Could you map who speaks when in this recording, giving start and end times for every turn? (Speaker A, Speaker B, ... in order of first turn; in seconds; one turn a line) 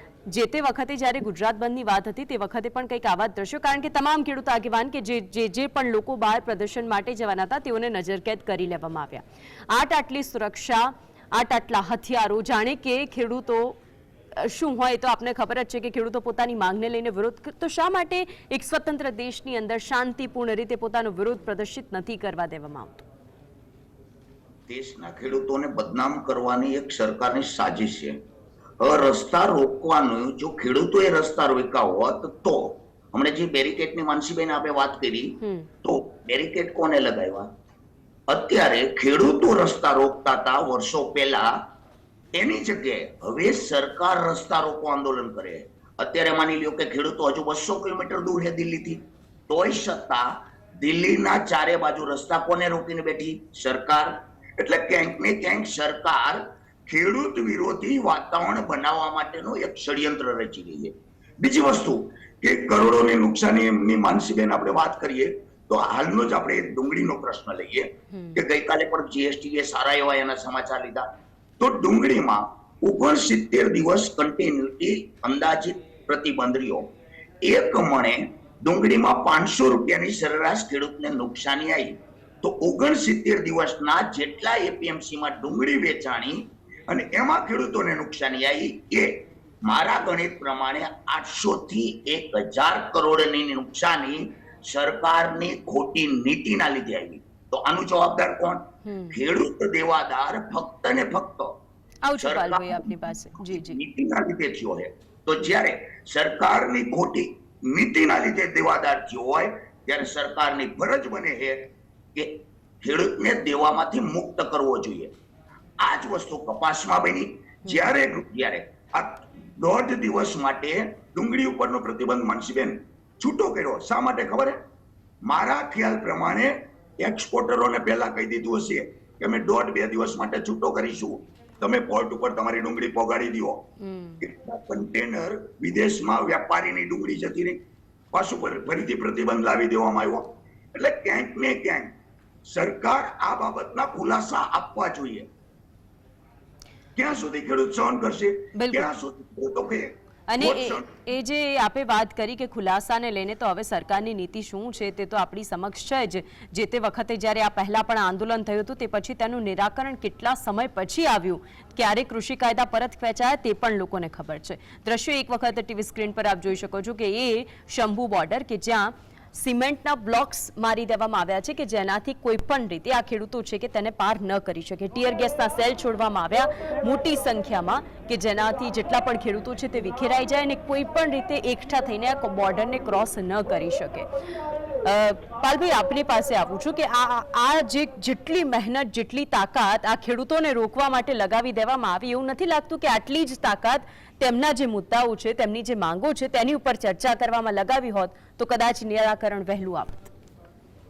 Speaker A: 0.2-13.8
Speaker A: 14.3-23.1
Speaker B: 24.7-28.2
Speaker B: 28.8-37.5
Speaker A: 35.4-35.7
Speaker B: 38.3-41.5
Speaker B: 42.4-50.3
Speaker B: 50.8-71.0
Speaker A: 68.1-68.4
Speaker B: 71.6-76.9
Speaker B: 77.4-101.5
Speaker A: 98.8-99.2
Speaker A: 102.0-103.8
Speaker B: 102.2-115.1
Speaker B: 115.8-124.6
Speaker B: 125.2-133.6
Speaker A: 133.8-134.2
Speaker B: 134.2-137.6
Speaker B: 138.1-141.9
Speaker B: 142.5-145.3
Speaker B: 146.9-150.9
Speaker A: 148.6-148.9
Speaker A: 150.3-184.1
Speaker A: 184.8-200.1